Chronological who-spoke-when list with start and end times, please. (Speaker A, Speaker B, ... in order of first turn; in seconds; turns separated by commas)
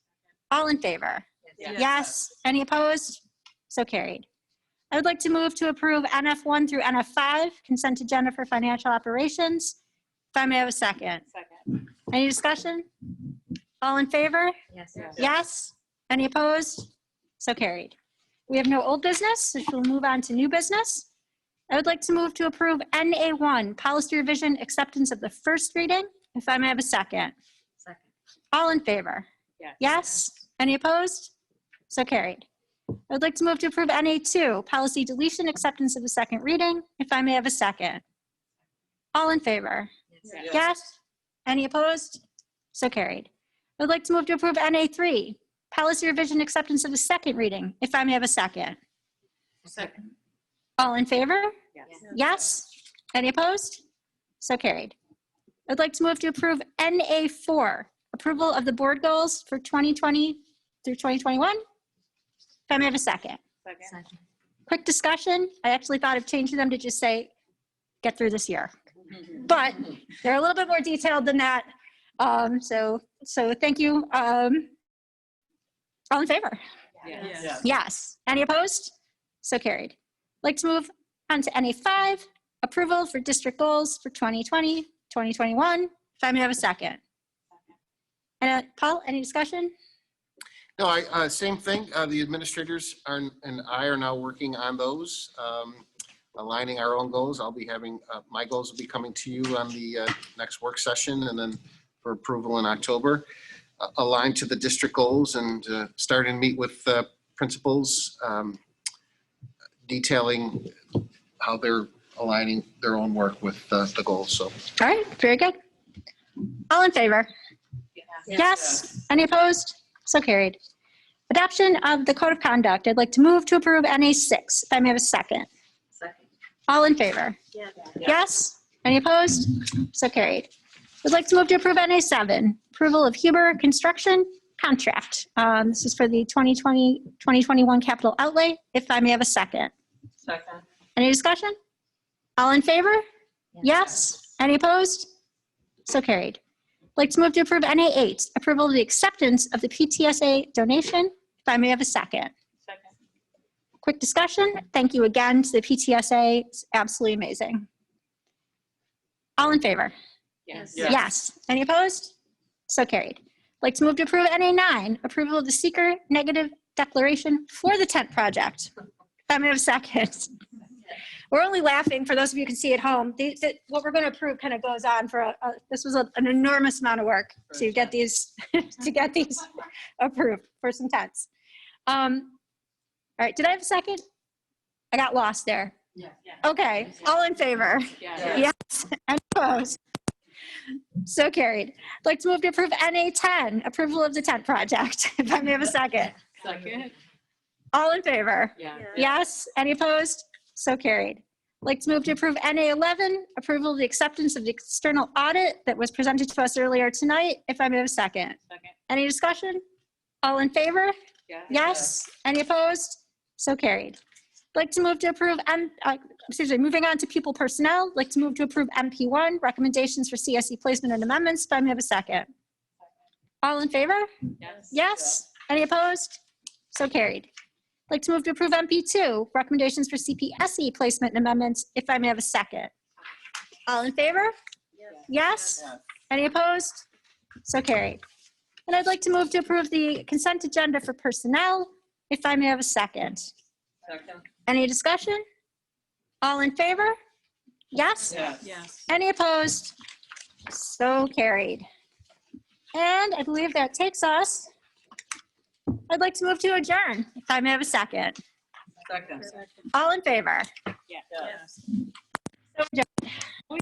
Speaker A: 0.5-4.3, Speaker B: 1.6-2.0, Speaker A: 4.9-9.8, Speaker A: 10.3-11.2, Speaker A: 12.1-12.9, Speaker A: 13.8-14.6, Speaker B: 14.9-15.2, Speaker A: 15.1-16.9, Speaker A: 17.4-17.9, Speaker A: 18.5-21.1, Speaker A: 21.7-27.3, Speaker A: 28.5-29.3, Speaker A: 29.8-31.3, Speaker A: 31.9-32.5, Speaker A: 33.1-38.0, Speaker A: 39.1-42.2, Speaker B: 40.3-40.5, Speaker A: 42.7-48.8, Speaker B: 49.7-50.1, Speaker A: 50.8-53.8, Speaker B: 51.8-52.0, Speaker A: 54.4-54.9, Speaker A: 55.7-61.6, Speaker A: 62.7-63.4, Speaker B: 63.6-64.0, Speaker A: 64.7-67.3, Speaker A: 68.0-68.7, Speaker A: 69.3-71.7, Speaker A: 72.2-74.7, Speaker A: 76.1-76.6, Speaker B: 77.0-77.5, Speaker A: 77.3-87.0, Speaker A: 88.4-89.7, Speaker C: 90.8-103.3, Speaker C: 103.8-108.6, Speaker C: 109.9-114.5, Speaker A: 114.8-115.6, Speaker A: 116.5-117.3, Speaker A: 118.3-120.6, Speaker A: 121.3-125.5, Speaker A: 126.7-127.4, Speaker A: 128.0-130.5, Speaker A: 131.0-139.7, Speaker B: 140.2-140.6, Speaker A: 141.0-141.6, Speaker A: 142.4-143.0, Speaker A: 143.6-145.1, Speaker A: 145.9-146.4, Speaker A: 147.0-152.3, Speaker A: 153.8-157.7, Speaker A: 159.4-159.9, Speaker B: 160.5-161.0, Speaker A: 160.7-162.1, Speaker A: 162.7-168.7, Speaker A: 169.3-170.3, Speaker A: 171.3-181.3, Speaker A: 181.9-182.3, Speaker A: 183.2-184.0, Speaker A: 184.9-185.8, Speaker A: 186.4-189.8, Speaker B: 188.0-188.5, Speaker A: 191.0-196.2, Speaker B: 196.4-196.9, Speaker A: 197.7-208.4, Speaker B: 198.6-199.1, Speaker A: 208.9-209.6, Speaker A: 210.2-210.9, Speaker B: 211.3-211.8, Speaker A: 211.5-214.0, Speaker A: 214.6-222.3, Speaker A: 223.4-224.1, Speaker B: 224.4-224.7, Speaker A: 224.7-226.2, Speaker A: 226.7-227.3, Speaker A: 227.9-232.7, Speaker A: 233.7-234.3, Speaker A: 235.1-236.8, Speaker A: 237.4-238.0, Speaker A: 238.7-243.3, Speaker B: 243.9-244.2, Speaker A: 244.5-245.2, Speaker A: 246.2-247.0, Speaker A: 247.7-248.3, Speaker B: 248.1-248.7, Speaker A: 248.9-249.8, Speaker A: 250.5-251.7, Speaker A: 252.7-254.5, Speaker A: 255.8-258.2, Speaker B: 258.9-259.4, Speaker A: 259.7-260.5, Speaker B: 260.9-261.5, Speaker A: 262.6-263.1